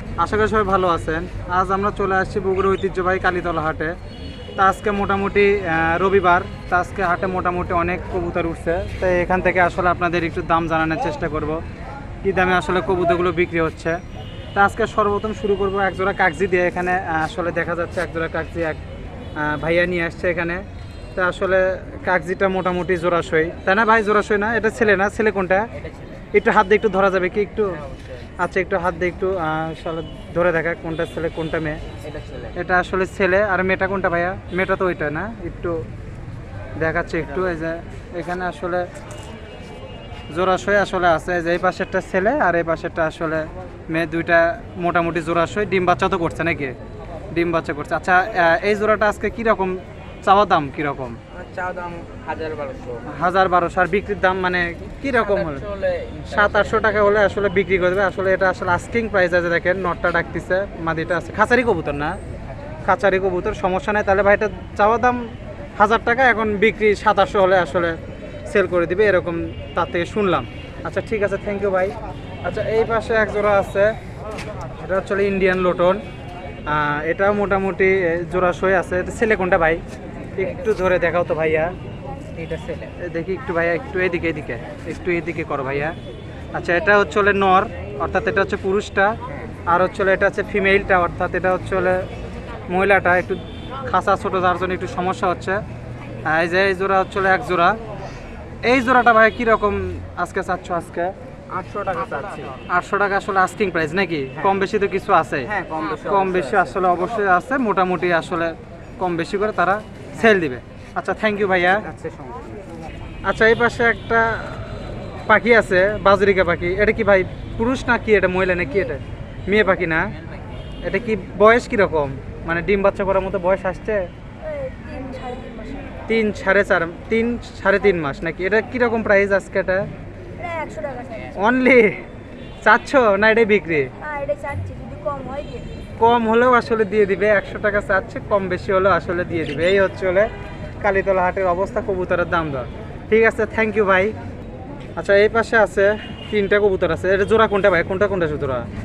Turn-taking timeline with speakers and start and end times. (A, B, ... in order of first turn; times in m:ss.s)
0:00.2-0:04.0 A
0:04.6-0:11.6 A
0:12.2-0:14.0 A
0:14.6-0:18.8 A
0:19.4-0:20.6 A
0:21.2-0:25.7 A
0:25.8-0:26.1 B
0:26.3-0:27.8 A
0:28.4-0:31.8 A
0:32.0-0:32.5 B
0:32.6-0:35.8 A
0:36.8-0:38.9 A
0:40.3-0:46.8 A
0:47.3-0:51.2 A
0:51.4-0:53.0 B
0:53.1-0:55.7 A
0:55.4-0:56.8 B
0:56.3-1:02.2 A
1:02.8-1:05.2 A
1:05.8-1:08.0 A
1:08.5-1:11.9 A
1:12.4-1:13.9 A
1:14.8-1:16.0 A
1:16.7-1:19.8 A
1:20.4-1:21.7 A
1:22.4-1:22.9 B
1:23.0-1:26.0 A
1:26.6-1:29.2 A
1:29.7-1:32.1 A
1:32.7-1:35.6 A
1:36.3-1:37.8 A
1:38.7-1:41.1 A
1:41.5-1:42.6 B
1:42.7-1:51.9 A
1:45.5-1:46.7 B
1:51.9-1:52.5 B
1:53.3-2:00.1 A
2:00.8-2:04.0 A
2:04.4-2:05.9 C
2:06.1-2:09.8 A
2:10.4-2:11.4 C
2:11.4-2:12.0 A
2:12.6-2:13.9 A
2:14.0-2:15.7 C
2:16.0-2:20.3 A
2:20.8-2:24.1 A
2:25.0-2:28.7 A